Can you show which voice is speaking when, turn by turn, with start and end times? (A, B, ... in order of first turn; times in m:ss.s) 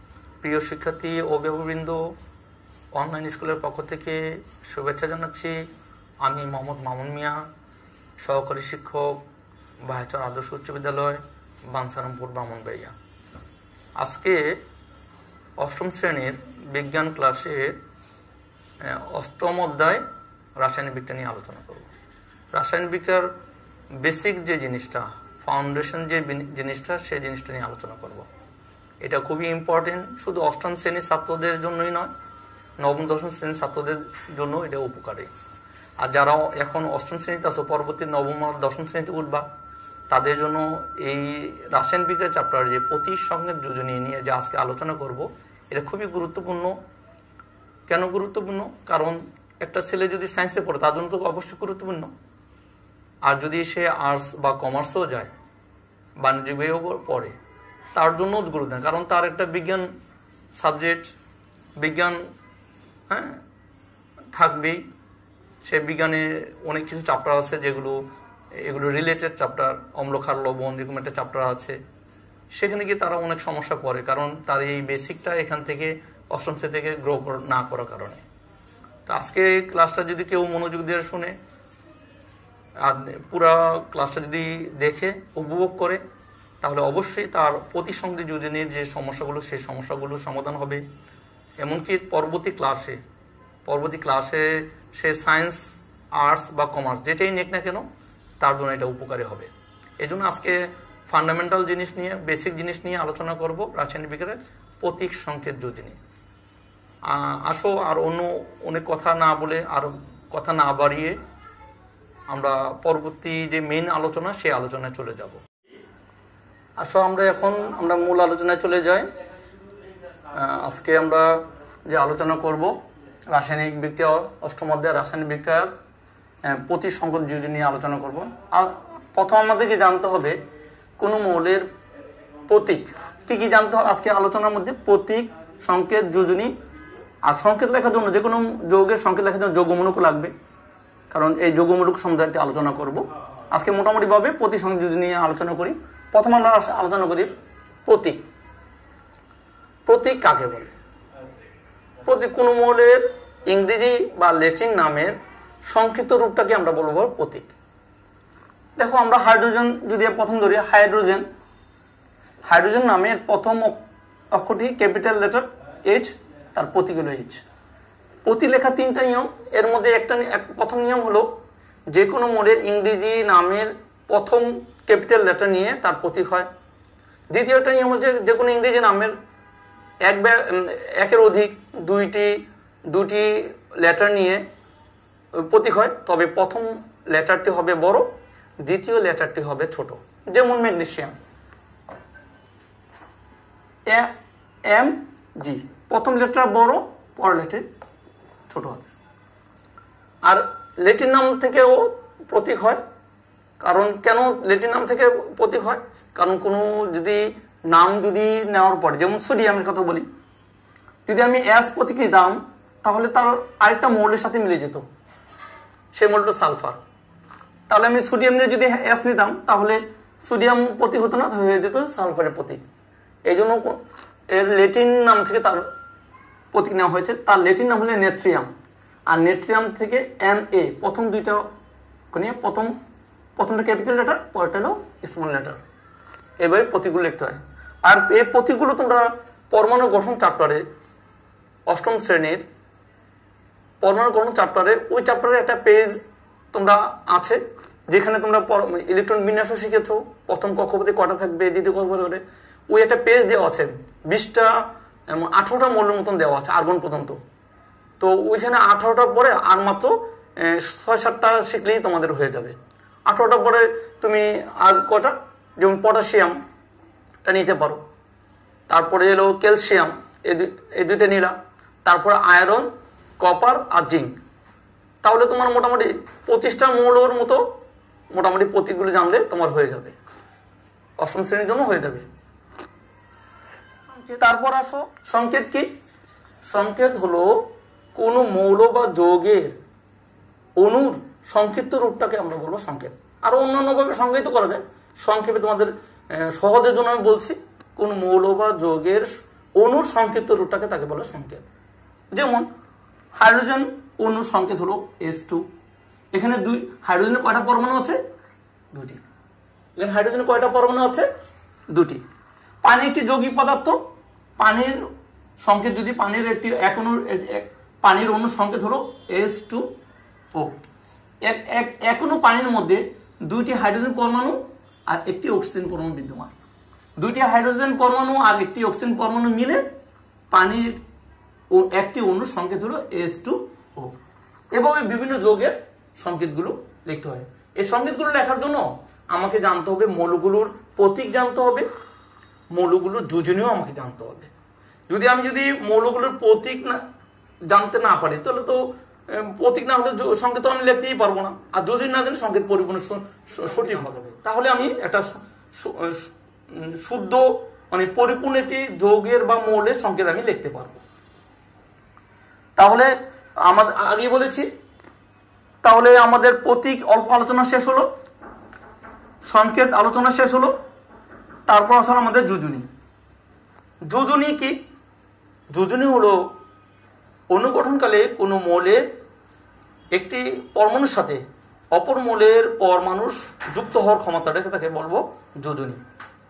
0:00.4-0:02.1 A
0:02.9-0:05.7 A
0:06.2-0:07.4 A
0:08.2-0:09.2 A
0:09.8-0:12.9 A
0:14.0-0:14.6 A
0:15.6-0:17.8 A
0:18.8-0:20.0 A
0:20.6-0:21.9 A
0:22.5-0:23.3 A
0:24.0-0:28.3 A
0:29.0-0:32.1 A
0:32.8-0:35.3 A
0:36.0-0:39.4 A
0:40.1-0:46.8 A
0:47.9-0:52.1 A
0:53.2-0:55.3 A
0:56.2-0:57.4 A
0:57.9-0:59.9 A
1:00.5-1:01.1 A
1:01.8-1:02.2 A
1:03.1-1:03.4 A
1:04.3-1:04.8 A
1:05.6-1:08.0 A
1:08.6-1:11.8 A
1:12.5-1:18.2 A
1:19.1-1:21.4 A
1:22.8-1:26.0 A
1:26.6-1:30.8 A
1:31.6-1:33.0 A
1:33.7-1:35.6 A
1:36.1-1:37.9 A
1:38.4-1:46.0 A
1:47.1-1:51.2 A
1:52.3-1:55.4 A
1:56.8-1:59.1 A
2:00.3-2:02.7 A
2:03.3-2:05.7 A
2:06.4-2:10.4 A
2:11.0-2:11.6 A
2:12.5-2:16.5 A
2:17.2-2:20.3 A
2:21.1-2:27.3 A
2:27.8-2:28.2 A
2:29.9-2:30.7 A
2:32.0-2:37.5 A
2:38.8-2:41.3 A
2:42.5-2:43.8 A
2:44.3-2:47.4 A
2:48.2-2:51.4 A
2:51.9-2:56.5 A
2:57.3-2:59.1 A
3:00.0-3:04.4 A
3:05.4-3:08.1 A
3:08.6-3:11.2 A
3:14.7-3:17.7 A
3:18.5-3:18.9 A
3:20.2-3:22.8 A
3:23.6-3:30.1 A
3:31.1-3:34.9 A
3:35.9-3:36.8 A
3:37.7-3:42.6 A
3:43.2-3:45.7 A
3:46.5-3:48.5 A
3:49.1-3:51.5 A
3:52.1-3:52.7 A
3:53.4-3:55.6 A
3:56.4-4:00.6 A
4:01.7-4:02.4 A
4:03.8-4:06.0 A
4:06.5-4:17.2 A
4:18.0-4:26.4 A
4:27.2-4:27.8 A
4:28.7-4:32.7 A
4:33.2-4:34.2 A
4:35.0-4:37.5 A
4:38.1-4:40.0 A
4:41.0-4:42.1 A
4:43.9-4:45.7 A
4:46.4-4:49.6 A
4:50.6-5:01.5 A
5:02.1-5:02.5 A
5:03.2-5:05.5 A
5:06.1-5:08.0 A
5:08.7-5:09.0 A
5:09.8-5:11.1 A
5:11.7-5:12.0 A
5:12.6-5:13.8 A
5:14.4-5:14.9 A
5:15.4-5:19.7 A
5:21.2-5:26.3 A
5:27.0-5:29.6 A
5:30.3-5:30.8 A
5:31.5-5:33.9 A
5:34.5-5:41.7 A
5:42.5-5:44.3 A
5:44.9-5:46.8 A
5:47.5-6:00.8 A
6:02.6-6:04.5 A
6:05.6-6:07.9 A
6:09.3-6:10.6 A
6:11.5-6:12.7 A
6:13.9-6:14.6 A
6:15.5-6:16.3 A
6:17.3-6:18.9 A
6:19.9-6:21.2 A
6:21.7-6:25.8 A